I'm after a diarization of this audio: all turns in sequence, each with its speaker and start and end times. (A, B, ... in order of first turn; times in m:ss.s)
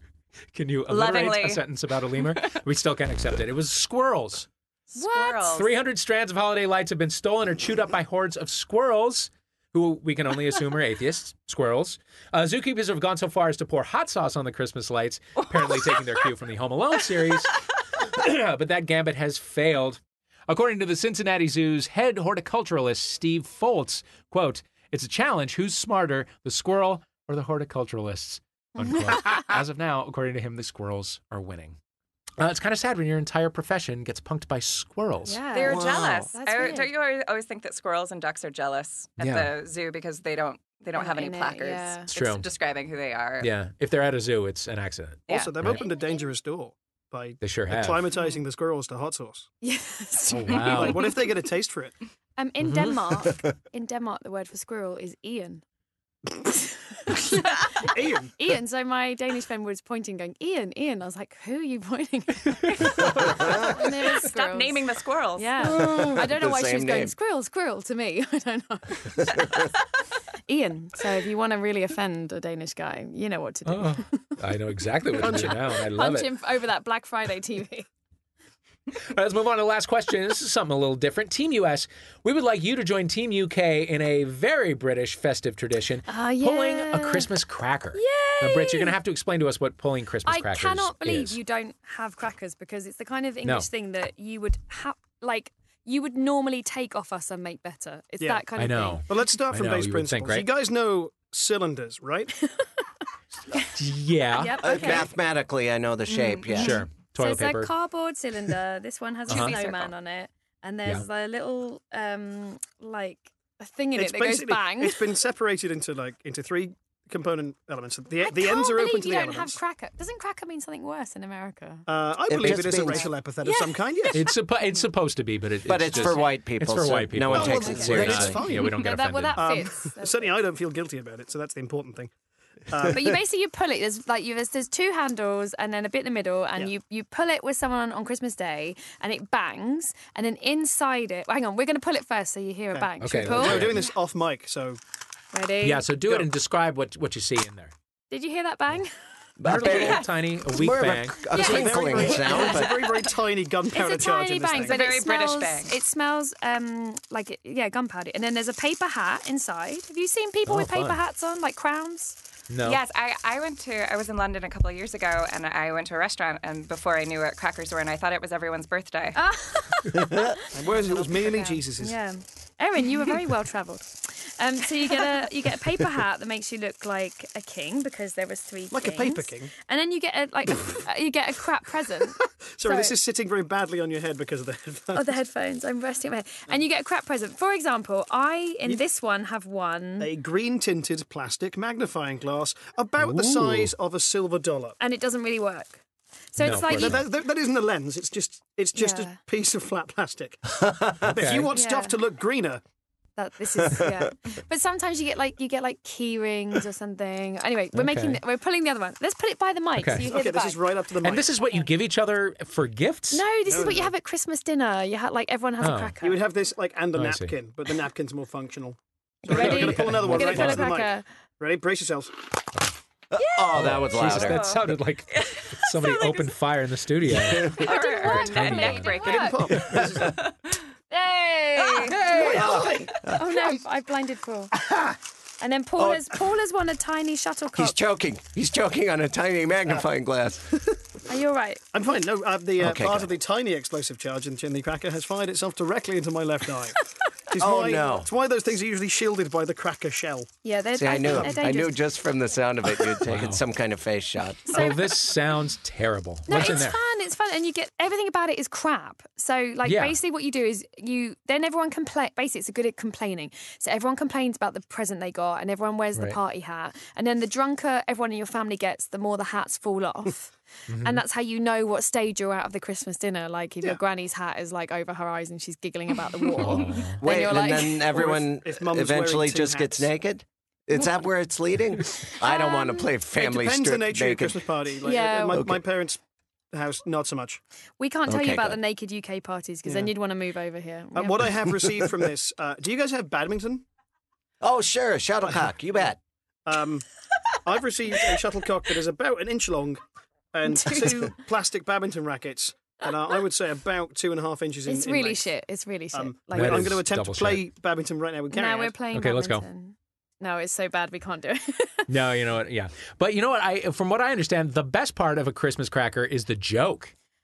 0:00.5-0:04.5 A
0:00.9-0:01.6 B
0:04.9-0:05.6 C
0:04.9-0:05.7 B
0:05.5-0:17.6 A
0:18.1-0:31.8 A
0:28.8-0:29.5 C
0:32.4-0:35.4 A
0:35.2-0:36.9 C
0:35.5-0:43.5 B
0:35.6-0:36.3 D
0:39.2-0:39.5 A
0:40.9-0:42.1 C
0:42.1-0:42.4 A
0:43.4-0:45.8 A
0:45.3-0:45.5 B
0:45.3-0:49.5 E
0:47.4-0:48.1 A
0:49.6-0:51.3 C
0:50.3-0:51.0 A
0:50.5-0:51.9 E
0:52.4-0:55.6 C
0:52.6-0:53.0 A
0:56.4-1:04.8 C
0:57.9-0:58.3 E
1:03.2-1:03.6 D
1:03.8-1:05.8 B
1:05.4-1:09.7 C
1:05.6-1:07.1 D
1:09.2-1:09.6 D
1:10.5-1:14.4 C
1:13.6-1:16.3 A
1:15.1-1:17.9 C
1:19.1-1:31.4 A
1:26.1-1:27.3 C
1:27.9-1:29.0 C
1:30.2-1:39.0 C
1:38.2-1:38.4 E
1:38.6-1:40.5 A
1:39.1-1:42.3 E
1:42.4-1:42.8 C
1:43.7-1:44.6 A
1:44.3-1:45.1 C
1:44.6-1:46.8 D
1:46.5-1:55.1 C
1:46.5-1:47.7 A
1:49.3-1:49.6 A
1:49.3-1:49.9 B
1:53.9-1:59.6 E
1:58.2-2:01.8 C
2:01.9-2:04.2 E
2:02.3-2:03.1 D
2:02.9-2:04.2 C
2:04.1-2:09.4 A
2:05.6-2:08.4 D
2:07.3-2:08.8 E
2:07.4-2:10.4 C
2:09.3-2:12.1 E
2:12.7-2:13.1 E
2:12.8-2:23.9 C
2:22.7-2:24.8 E
2:23.0-2:23.8 A
2:25.3-2:25.9 C
2:25.6-2:27.7 A
2:26.0-2:26.3 E
2:28.1-2:28.9 C
2:29.4-2:32.9 D
2:29.4-2:31.3 A
2:31.3-2:32.8 C
2:31.3-2:34.8 E
2:33.7-2:42.2 C
2:34.6-2:35.7 B
2:40.5-2:41.0 A
2:42.5-2:42.8 A
2:42.6-2:49.2 B
2:49.1-3:03.0 C
2:50.5-2:52.0 E
2:58.7-2:59.5 E
3:02.2-3:05.1 E
3:04.9-3:10.1 C
3:10.0-3:14.8 E
3:13.0-3:13.7 A
3:14.8-3:15.8 C
3:16.3-3:17.0 C
3:16.4-3:17.0 A
3:16.6-3:20.4 E
3:18.7-3:19.2 C
3:20.6-3:21.1 D
3:21.0-3:22.6 E
3:21.1-3:21.5 A
3:21.5-3:22.0 C
3:23.2-3:30.8 C
3:27.7-3:28.2 A
3:29.8-3:30.1 A
3:30.0-3:31.3 E
3:31.0-3:33.2 A
3:33.1-3:36.3 C
3:33.4-3:33.9 E
3:35.6-3:35.9 A
3:36.0-3:42.1 E
3:36.9-3:37.3 A
3:39.2-3:41.0 C
3:39.3-3:40.7 A
3:43.1-3:44.5 D
3:43.2-3:44.5 C
3:43.5-3:49.0 A
3:44.2-3:44.6 B
3:45.2-3:46.2 B
3:47.2-3:47.5 D
3:47.5-3:49.5 B
3:47.5-3:49.7 C
3:48.9-3:50.2 E
3:50.0-3:50.3 B
3:50.9-3:54.5 C
3:51.6-3:52.0 B
3:52.2-3:53.2 D
3:52.4-3:52.6 E
3:55.4-3:57.8 C
3:55.8-3:56.1 D
3:57.6-4:00.6 D
4:01.1-4:01.6 C
4:01.7-4:10.3 E
4:02.6-4:03.1 D
4:07.4-4:08.1 D
4:10.4-4:11.8 C
4:10.7-4:14.5 D
4:11.0-4:11.3 E
4:13.1-4:13.4 A
4:14.5-4:15.1 C
4:14.5-4:16.8 A
4:16.3-4:38.0 C
4:19.6-4:20.0 A
4:30.7-4:31.0 A
4:36.4-4:37.0 A
4:37.0-4:44.5 D
4:37.8-4:39.9 E
4:42.2-4:43.0 C
4:43.1-4:46.0 E
4:44.8-4:45.5 C
4:45.3-4:45.6 D
4:46.5-4:47.4 E
4:47.8-4:51.6 C
4:48.0-4:48.6 D
4:49.6-4:49.9 E
4:50.9-4:53.6 E
4:54.4-4:56.0 D
4:56.4-4:56.8 E
4:57.4-4:59.8 E
5:00.3-5:05.3 E
5:00.4-5:01.2 C
5:04.7-5:06.8 C
5:05.9-5:08.8 E
5:06.3-5:07.4 A
5:08.3-5:11.9 C
5:08.9-5:09.4 A
5:11.9-5:16.9 A